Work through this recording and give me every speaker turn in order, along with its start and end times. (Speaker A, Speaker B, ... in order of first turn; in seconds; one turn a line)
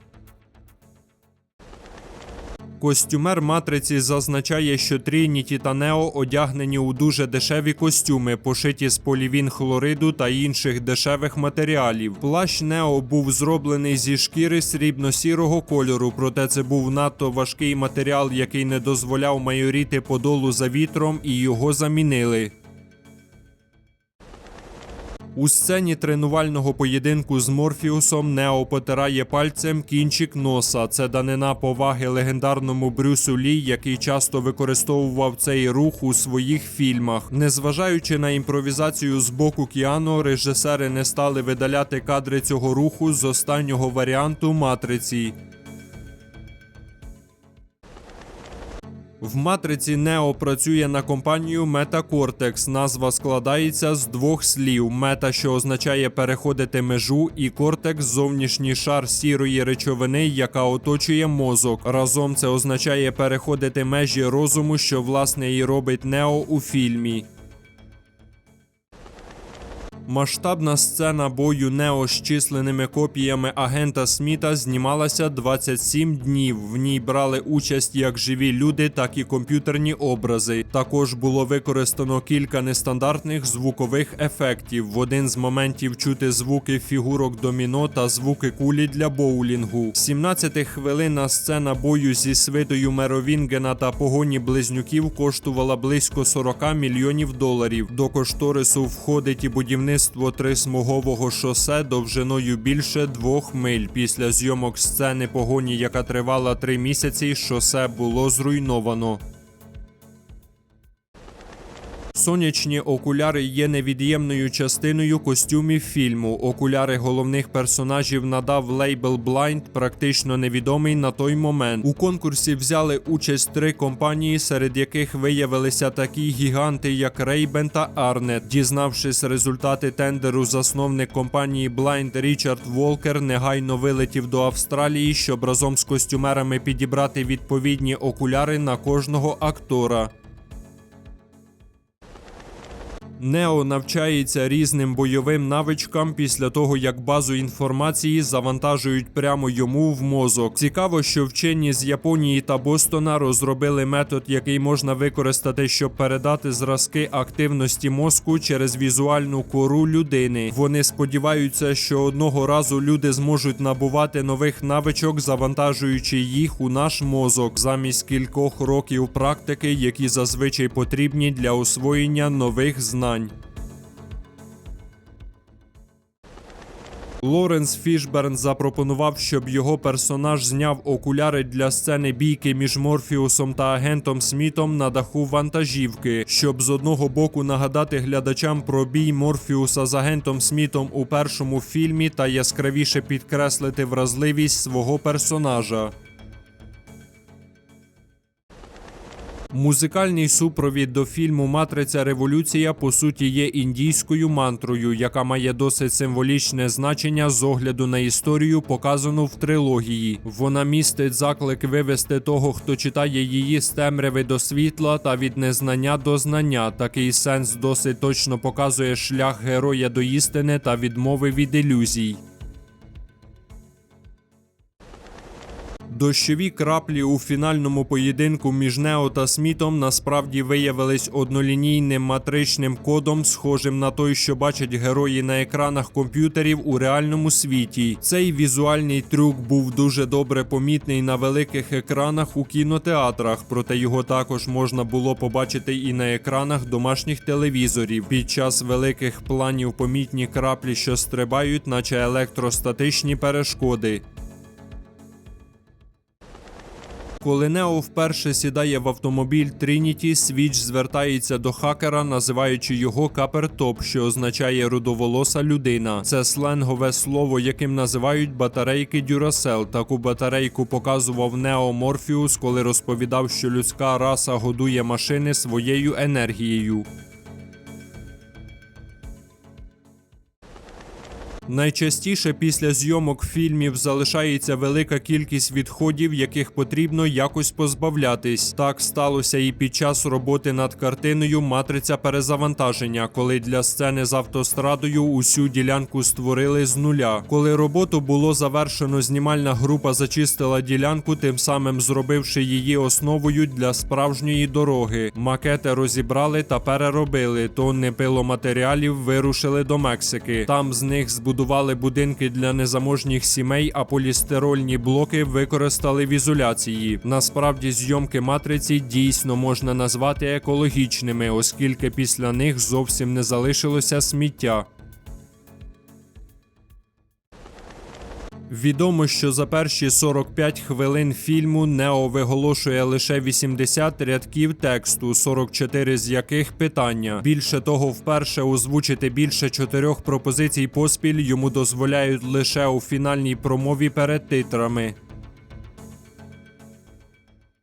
Speaker A: 2.8-22.5
Speaker A: 25.3-45.4
Speaker A: 49.2-67.3
Speaker A: 70.0-109.2
Speaker A: 112.1-140.1
Speaker A: 143.2-173.3
Speaker A: 177.2-195.9
Speaker A: 199.5-222.2
Speaker A: 225.9-254.0
Speaker A: 257.2-276.9
Speaker A: 281.5-324.7
Speaker A: 328.5-344.9